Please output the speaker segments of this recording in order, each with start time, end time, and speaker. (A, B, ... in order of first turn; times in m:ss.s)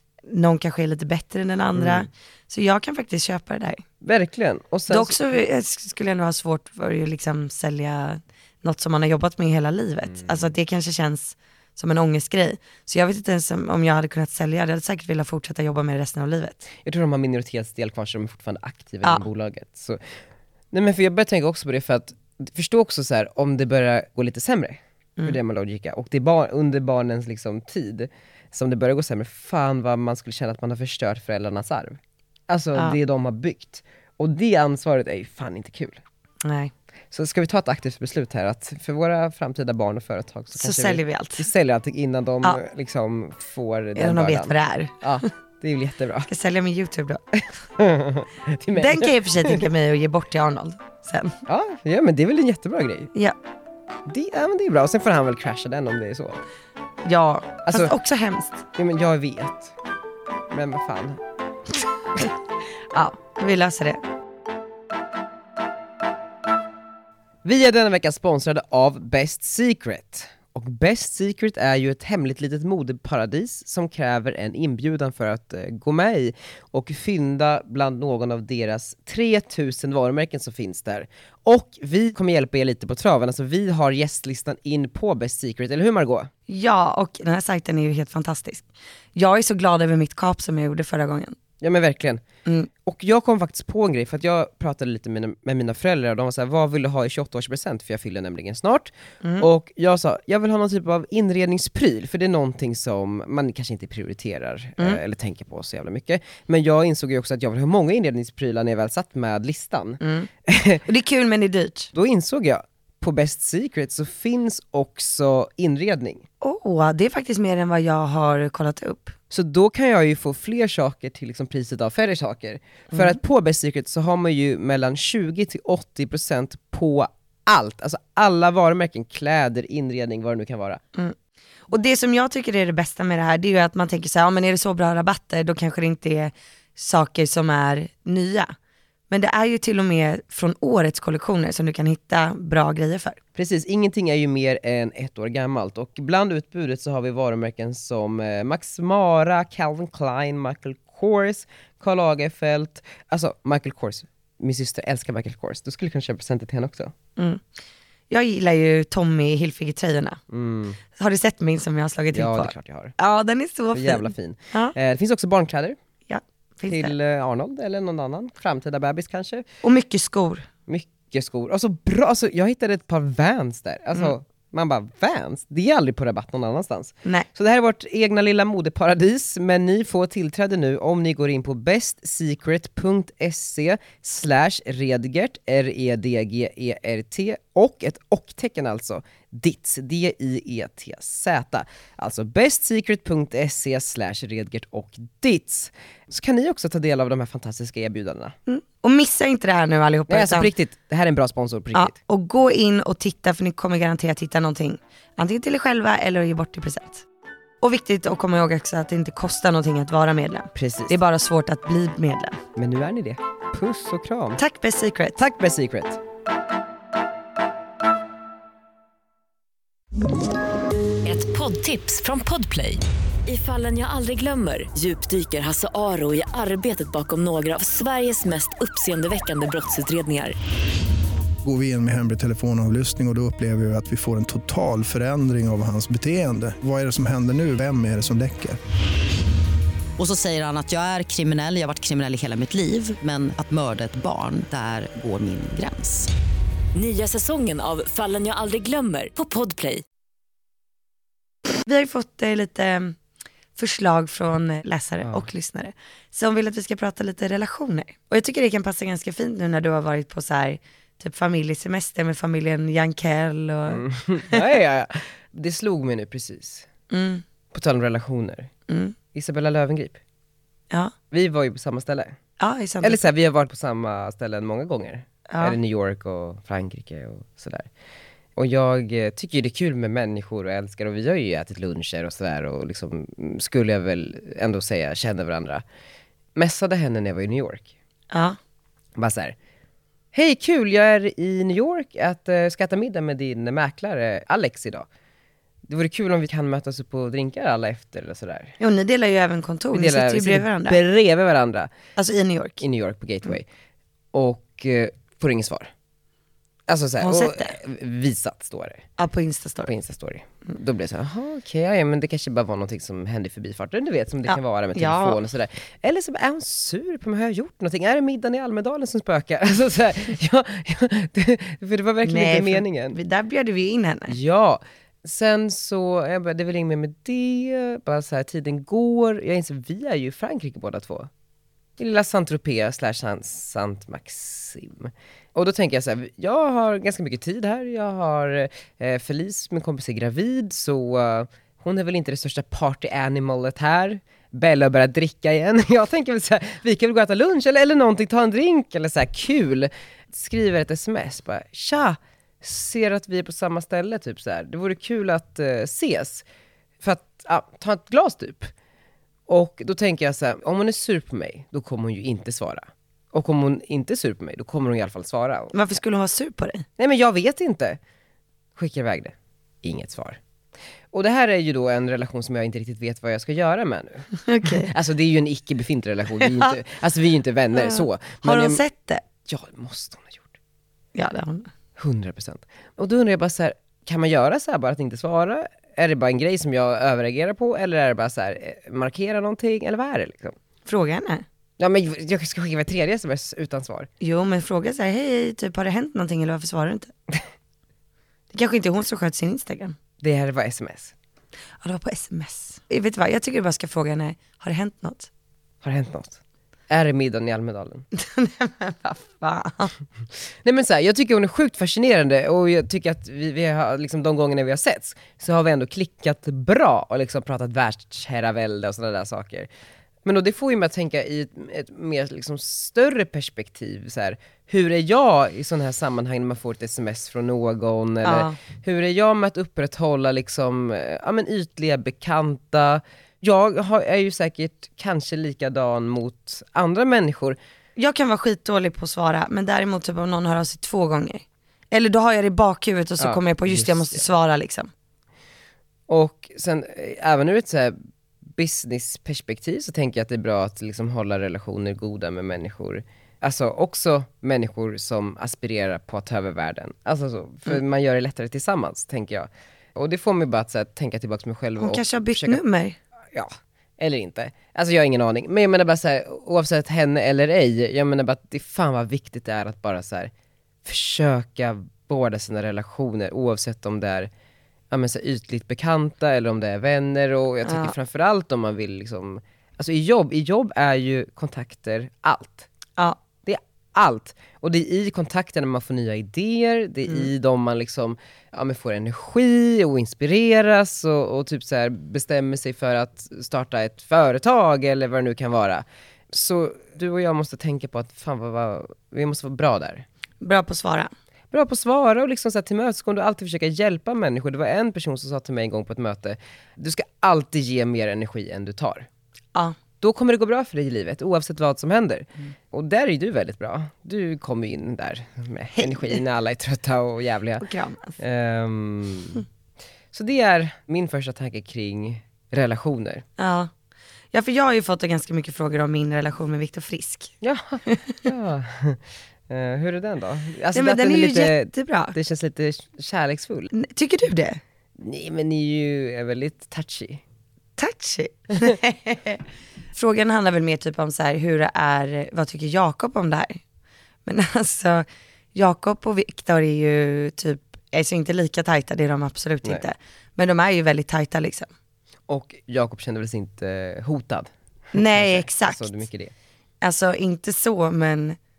0:00.3-0:03.8 A
0:01.7-0:02.1 B
0:04.0-0:05.2 B
0:04.9-0:16.7 A
0:10.1-0:10.5 B
0:16.8-0:20.0 B
0:20.7-0:36.0 B
0:36.4-0:36.7 A
0:37.1-0:46.3 B
0:40.5-0:41.5 A
0:44.0-0:45.2 A
0:46.3-0:47.2 A
0:47.8-0:49.7 B
0:48.7-0:51.4 A
0:51.5-0:53.1 B
0:54.0-0:56.4 B
0:57.0-0:58.6 A
0:57.6-0:57.9 B
0:58.8-0:59.7 B
1:00.5-1:01.2 B
1:02.9-1:04.0 A
1:07.4-1:26.3 B
1:26.5-1:31.3 A
1:31.6-1:32.2 B
1:32.8-1:50.8 B
1:50.0-1:50.3 A
1:50.8-1:51.9 A
1:51.9-1:56.2 B
1:56.4-1:59.1 A
1:59.3-2:10.8 B
2:11.7-2:18.5 A
2:19.1-2:23.2 A
2:23.3-2:36.9 B
2:37.2-2:37.4 A
2:38.1-2:40.2 A
2:40.3-2:40.8 B
2:41.0-2:44.7 A
2:42.1-2:42.9 B
2:43.7-2:45.8 B
2:46.1-2:46.9 A
2:46.7-2:49.4 B
2:49.6-2:50.5 A
2:50.7-3:18.3 B
3:18.5-3:20.5 A
3:20.1-3:22.0 B
3:21.7-3:27.0 A
3:27.6-3:32.4 A
3:30.5-3:31.0 B
3:32.6-3:34.4 B
3:34.4-3:35.2 A
3:35.2-3:36.0 B
3:41.0-3:50.4 C
3:51.4-3:58.6 D
4:00.0-4:06.1 E
4:06.7-4:09.8 C
4:11.6-4:13.0 A
4:13.6-4:24.4 A
4:23.7-4:26.7 B
4:26.9-4:27.2 A
4:27.5-4:28.5 B
4:28.7-4:28.9 A
4:29.1-4:30.0 B
4:31.1-4:32.2 B
4:32.4-4:33.0 A
4:32.8-4:37.7 B
4:35.3-4:35.6 A
4:38.4-4:45.6 B
4:46.4-4:47.7 B
4:48.1-4:48.4 A
4:49.0-4:49.4 B
4:50.1-4:54.9 B
4:55.6-4:58.5 B
4:58.6-5:00.8 A
4:59.7-5:01.7 B
5:02.0-5:02.6 A
5:02.6-5:03.5 B
5:04.1-5:05.7 B
5:06.7-5:08.8 B
5:07.0-5:07.5 A
5:09.0-5:09.7 A
5:09.6-5:23.0 B
5:14.3-5:15.2 A
5:22.0-5:24.2 A
5:24.1-5:31.1 B
5:31.8-5:56.2 B
5:56.8-5:58.5 B
5:59.3-6:05.5 B
6:05.5-6:06.6 A
6:06.8-6:07.8 B
6:08.6-6:10.2 B
6:10.9-6:18.6 B
6:14.2-6:14.7 A
6:17.5-6:19.0 A
6:19.2-6:20.3 B
6:20.9-6:21.5 A
6:21.8-6:30.4 B
6:30.6-6:31.2 A
6:31.6-6:33.9 B
6:34.0-6:36.9 A
6:38.3-6:39.8 A
6:40.0-6:40.9 B
6:41.6-6:45.1 A
6:45.6-6:47.8 B
6:47.9-6:49.7 A
6:50.4-6:59.5 B
7:00.0-7:17.4 B
7:08.0-7:08.4 A
7:17.8-7:24.7 A
7:23.0-7:24.0 B
7:25.9-7:27.8 B
7:28.3-7:42.4 B
7:41.6-7:42.8 A
7:43.1-7:50.1 B
7:50.6-7:54.1 B
7:54.7-8:02.5 B
7:57.4-7:57.7 A
8:03.2-8:19.8 B
8:20.2-8:20.9 A
8:21.3-8:28.9 B
8:29.8-8:37.4 B
8:35.6-8:35.9 A
8:37.4-8:38.0 A
8:38.0-8:39.2 B
8:39.9-8:43.0 B
8:43.2-8:43.5 A
8:44.1-8:47.1 A
8:47.2-8:53.5 B
8:47.6-8:48.0 A
8:50.5-8:52.0 A
8:53.5-8:54.4 A
8:54.8-8:57.0 B
8:57.6-8:59.2 A
8:59.7-9:03.4 A
9:04.0-9:11.5 A
9:12.1-9:16.1 B
9:14.7-9:15.7 A
9:16.6-9:18.2 A